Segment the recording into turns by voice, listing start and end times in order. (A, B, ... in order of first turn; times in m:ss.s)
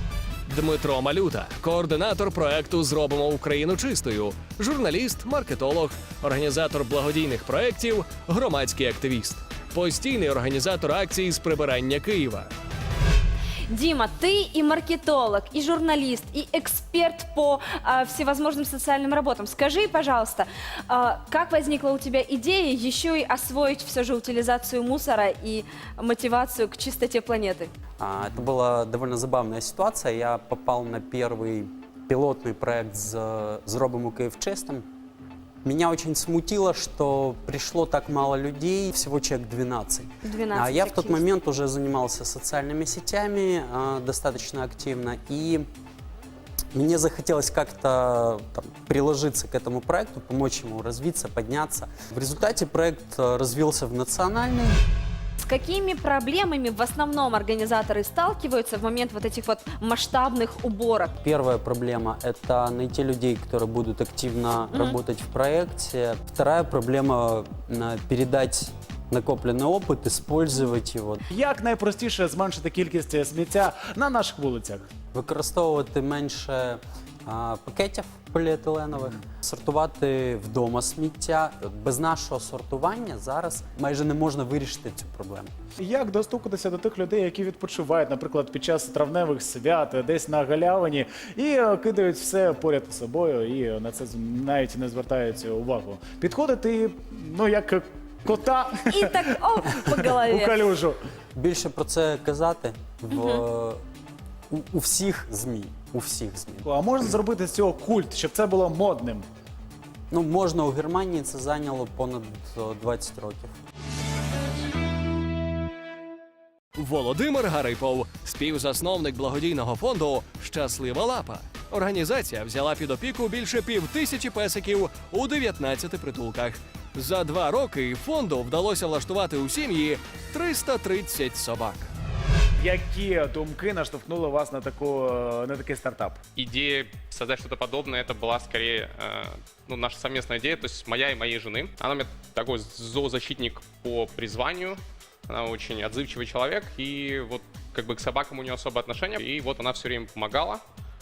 0:00.5-0:12.5 A
0:13.7-0:27.7 B
0:28.0-0:34.8 C
0:35.6-0:45.6 C
0:40.2-0:41.2 B
0:46.7-0:54.8 C
0:55.4-1:01.1 B
1:01.2-1:11.3 C
1:11.3-1:14.8 D
1:15.1-1:25.5 C
1:25.8-1:39.1 D
1:38.9-1:40.7 B
1:40.0-1:41.0 D
1:41.4-1:43.8 C
1:43.1-1:43.4 B
1:44.5-1:46.7 C
1:46.6-1:49.3 D
1:50.1-1:53.6 C
1:56.8-2:11.9 A
2:12.6-2:16.2 D
2:16.4-2:30.6 E